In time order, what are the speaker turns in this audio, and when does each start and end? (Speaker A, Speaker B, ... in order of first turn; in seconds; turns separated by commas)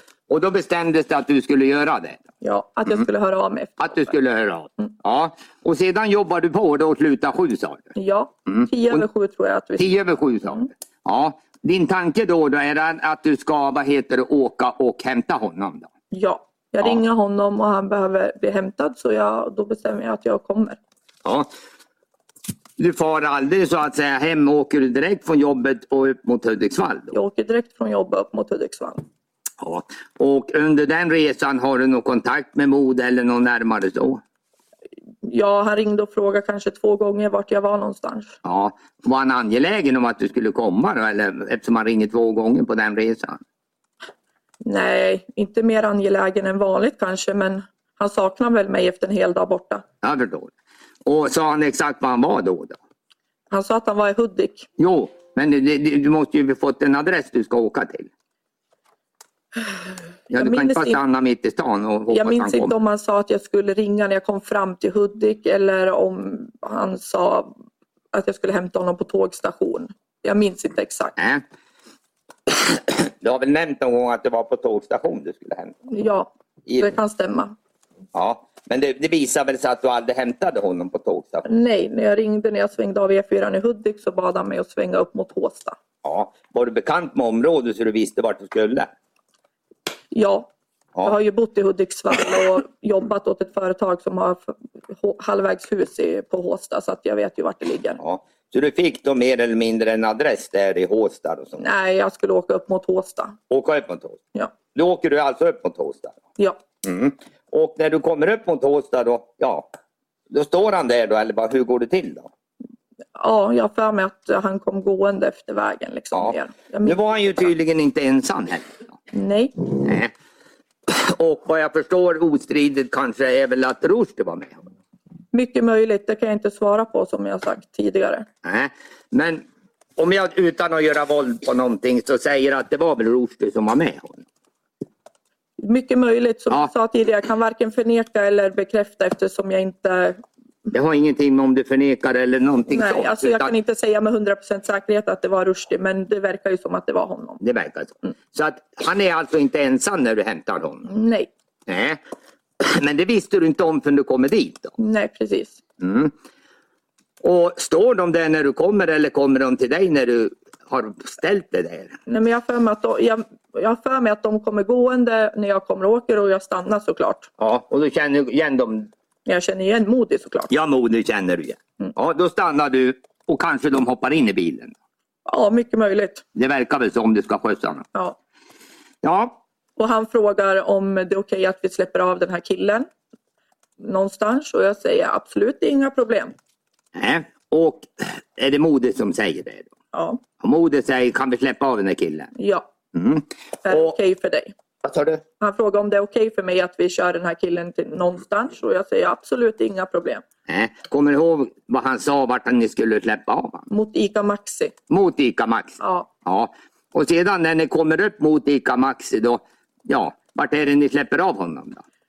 Speaker A: 0.3-2.2, Speaker B: 2.4-4.1, Speaker A: 3.8-7.9, Speaker B: 8.0-10.7, Speaker A: 8.5-9.1, Speaker A: 9.8-15.9, Speaker B: 16.1-20.8, Speaker A: 22.8-27.1, Speaker B: 27.1-29.0, Speaker A: 29.6-34.2, Speaker B: 35.2-38.4, Speaker A: 38.4-43.4, Speaker B: 44.6-49.8, Speaker A: 50.0-50.5, Speaker A: 51.0-52.8, Speaker B: 53.5-54.7, Speaker A: 54.8-58.1, Speaker A: 60.3-62.7, Speaker B: 60.3-61.0, Speaker B: 62.1-67.5, Speaker B: 68.1-71.1, Speaker A: 71.2-71.4, Speaker A: 72.5-75.8, Speaker B: 75.9-77.5, Speaker A: 78.1-81.5, Speaker B: 81.5-85.8, Speaker A: 86.0-88.9, Speaker B: 90.1-90.5, Speaker B: 91.0-98.0, Speaker A: 98.0-101.7, Speaker B: 101.6-103.4, Speaker A: 103.5-106.2, Speaker A: 106.8-109.7, Speaker A: 110.3-112.3, Speaker B: 113.2-117.5, Speaker A: 116.1-118.9, Speaker B: 119.1-119.7, Speaker A: 119.8-120.1, Speaker A: 120.9-124.7, Speaker B: 125.3-128.3, Speaker A: 128.4-129.4, Speaker A: 130.0-134.2, Speaker B: 135.6-140.2, Speaker A: 140.7-143.5, Speaker B: 142.7-147.4, Speaker A: 147.4-150.9, Speaker B: 150.8-151.3, Speaker A: 151.7-152.0, Speaker A: 152.6-154.7, Speaker B: 154.8-155.6, Speaker A: 155.8-156.1, Speaker A: 157.2-161.9, Speaker B: 162.1-167.3, Speaker A: 167.4-168.9, Speaker B: 169.3-170.5, Speaker A: 170.5-174.8, Speaker B: 175.3-176.2, Speaker A: 176.3-177.8, Speaker A: 179.0-179.4, Speaker B: 179.8-182.9, Speaker B: 183.8-186.3, Speaker A: 186.9-189.7, Speaker B: 189.9-190.2, Speaker A: 190.4-192.3, Speaker B: 192.4-192.7, Speaker A: 192.9-194.0, Speaker B: 193.7-194.5, Speaker A: 194.8-195.2, Speaker B: 195.4-200.2, Speaker A: 200.5-203.7, Speaker B: 203.7-204.8, Speaker A: 204.9-211.8, Speaker B: 205.8-206.1